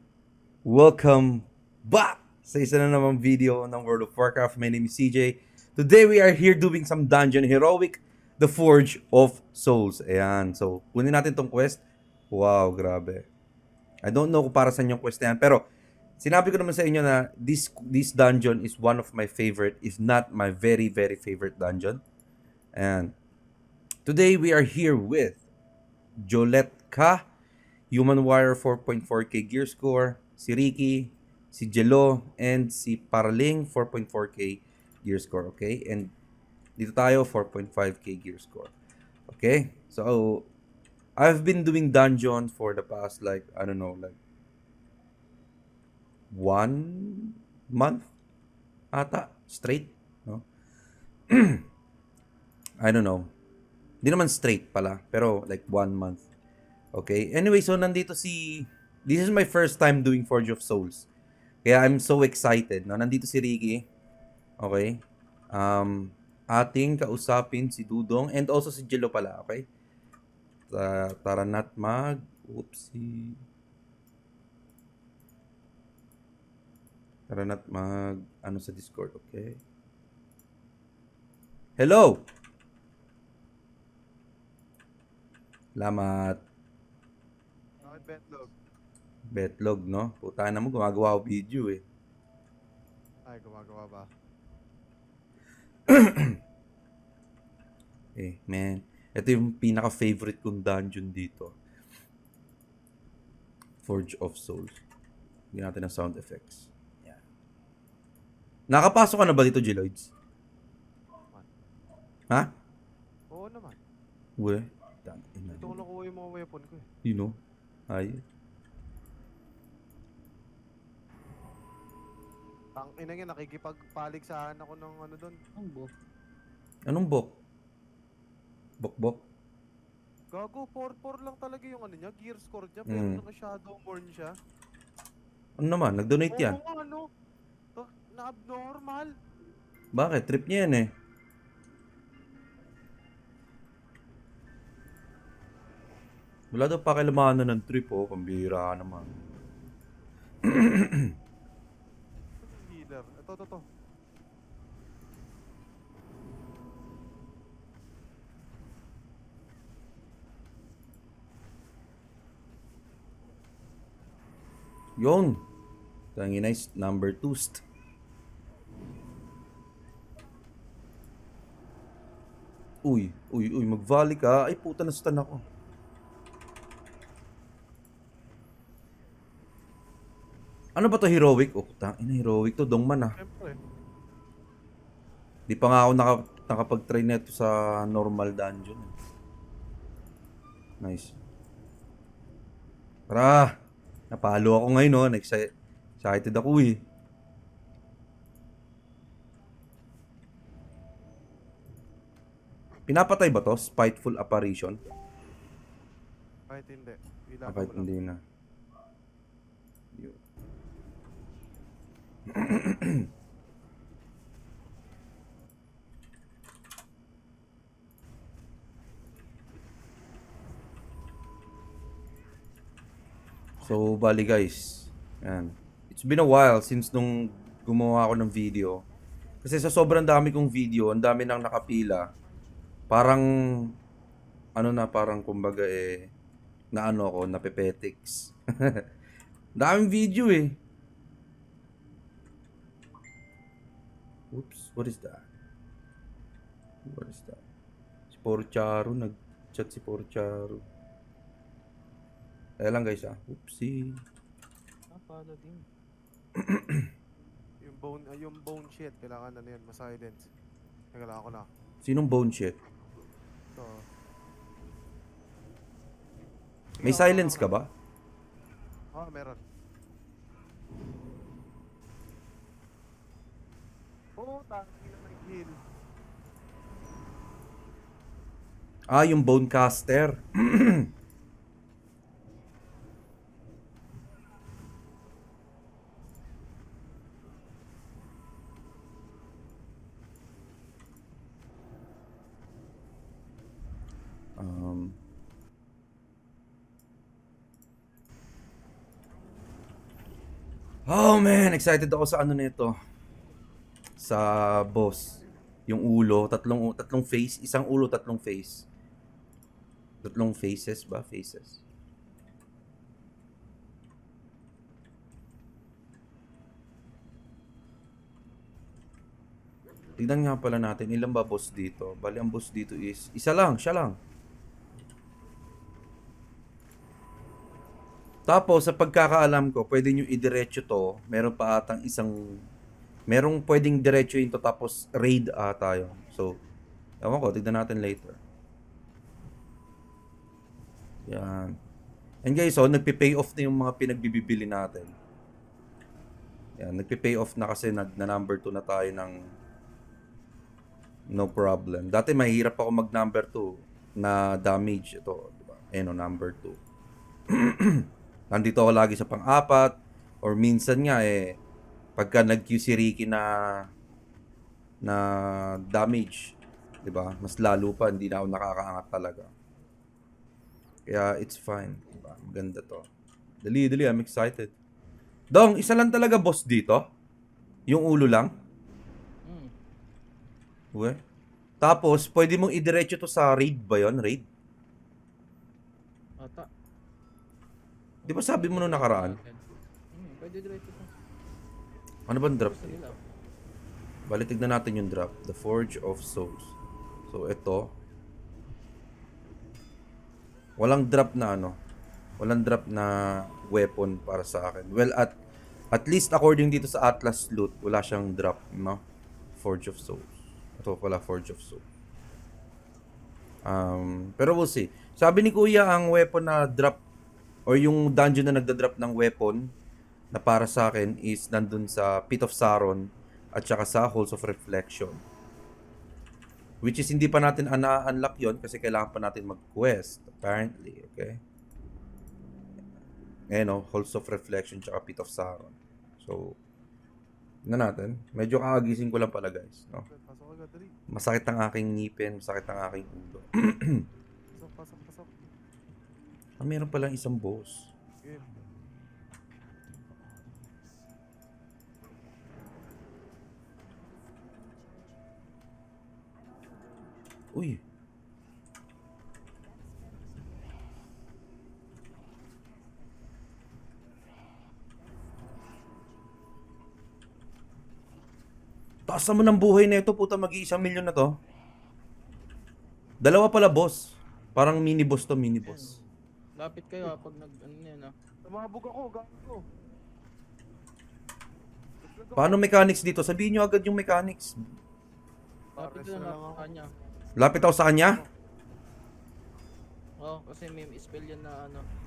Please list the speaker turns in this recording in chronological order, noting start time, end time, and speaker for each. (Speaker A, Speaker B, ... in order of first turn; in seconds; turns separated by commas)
Speaker A: 0.6-13.3, Speaker A: 14.0-15.6, Speaker A: 16.2-22.0, Speaker A: 22.7-23.1, Speaker A: 24.1-25.4, Speaker A: 26.2-27.2, Speaker A: 27.9-36.1, Speaker A: 36.8-38.7, Speaker A: 39.3-40.5, Speaker A: 41.2-44.2, Speaker A: 46.3-48.0, Speaker A: 48.9-50.4, Speaker A: 51.3-51.6, Speaker A: 52.8-53.3, Speaker A: 54.0-56.2, Speaker A: 56.9-61.1, Speaker A: 61.6-63.9, Speaker A: 64.6-69.7, Speaker A: 70.7-73.4, Speaker A: 77.3-79.6, Speaker A: 81.8-82.2, Speaker A: 85.8-86.4, Speaker B: 87.8-88.5, Speaker C: 87.8-88.5, Speaker A: 89.3-91.8, Speaker C: 93.3-94.1, Speaker A: 95.9-96.4, Speaker A: 98.2-101.5, Speaker A: 103.8-104.8, Speaker A: 105.5-107.2, Speaker A: 108.7-110.1, Speaker C: 113.3-113.8, Speaker A: 114.4-115.8, Speaker C: 115.5-116.8, Speaker A: 117.0-117.4, Speaker A: 117.9-118.2, Speaker C: 122.8-125.4, Speaker B: 125.5-125.9, Speaker A: 126.9-127.3, Speaker A: 128.8-129.2, Speaker C: 130.3-134.3, Speaker A: 132.9-133.2, Speaker A: 135.6-136.6, Speaker C: 136.3-137.1, Speaker C: 137.8-139.1, Speaker A: 139.9-140.9, Speaker A: 146.5-149.1, Speaker A: 150.4-151.1, Speaker C: 152.4-153.7, Speaker A: 165.0-165.4, Speaker A: 166.2-167.6, Speaker A: 172.8-175.4, Speaker A: 180.8-183.2, Speaker C: 183.2-183.6, Speaker A: 185.5-188.9, Speaker A: 190.8-191.1, Speaker A: 193.1-193.5, Speaker A: 194.1-195.5, Speaker A: 196.0-196.8, Speaker A: 202.9-204.8, Speaker C: 206.5-207.9, Speaker A: 207.5-208.2, Speaker A: 209.9-210.2, Speaker A: 212.3-213.1, Speaker A: 223.6-228.8, Speaker A: 229.4-232.1, Speaker A: 232.9-233.7, Speaker A: 234.6-236.1, Speaker A: 236.7-238.8, Speaker A: 239.6-240.6, Speaker A: 244.3-245.2, Speaker A: 246.8-247.4, Speaker A: 248.1-250.6, Speaker A: 252.6-254.0, Speaker B: 254.9-255.6, Speaker A: 256.4-256.9, Speaker C: 257.6-260.3, Speaker C: 260.9-261.5, Speaker A: 261.8-262.6, Speaker C: 263.5-263.8, Speaker A: 266.8-267.7, Speaker C: 266.8-267.5, Speaker C: 268.9-269.4, Speaker C: 274.2-275.6, Speaker A: 278.9-280.9, Speaker A: 294.4-295.0, Speaker A: 300.9-302.7, Speaker A: 304.0-308.6, Speaker A: 310.0-311.6, Speaker A: 320.0-323.9, Speaker A: 328.3-332.4, Speaker A: 333.1-336.4, Speaker A: 337.0-338.2, Speaker A: 341.1-341.6, Speaker A: 342.2-344.9, Speaker A: 346.6-349.2, Speaker A: 351.1-356.6, Speaker A: 357.3-361.4, Speaker A: 362.0-363.7, Speaker A: 364.8-369.3, Speaker A: 370.9-372.9, Speaker A: 373.4-374.5, Speaker A: 375.3-376.9, Speaker A: 377.7-378.3, Speaker B: 379.2-379.5, Speaker A: 380.7-381.0, Speaker A: 381.6-384.2, Speaker B: 386.2-386.5, Speaker B: 388.1-390.9, Speaker A: 388.1-389.2, Speaker A: 392.1-392.9, Speaker B: 392.3-393.0, Speaker A: 394.1-396.5, Speaker A: 397.1-397.7, Speaker A: 400.6-401.6, Speaker A: 402.2-405.1, Speaker A: 405.7-408.8, Speaker A: 409.4-411.6, Speaker A: 413.4-416.8, Speaker A: 417.5-419.5, Speaker A: 420.1-425.0, Speaker A: 426.6-431.2, Speaker A: 433.3-436.4, Speaker A: 437.4-439.9, Speaker C: 439.7-440.8, Speaker A: 440.9-443.9, Speaker C: 444.4-445.3, Speaker A: 446.4-447.7, Speaker C: 448.0-448.4, Speaker A: 457.3-457.6, Speaker A: 468.9-471.2, Speaker A: 473.0-475.8, Speaker B: 475.4-475.7, Speaker B: 476.4-477.9, Speaker C: 478.2-479.4, Speaker C: 481.8-482.5, Speaker A: 482.1-484.4, Speaker C: 485.6-486.5, Speaker B: 485.6-486.7, Speaker A: 487.1-488.0, Speaker C: 487.8-488.1, Speaker B: 490.0-491.6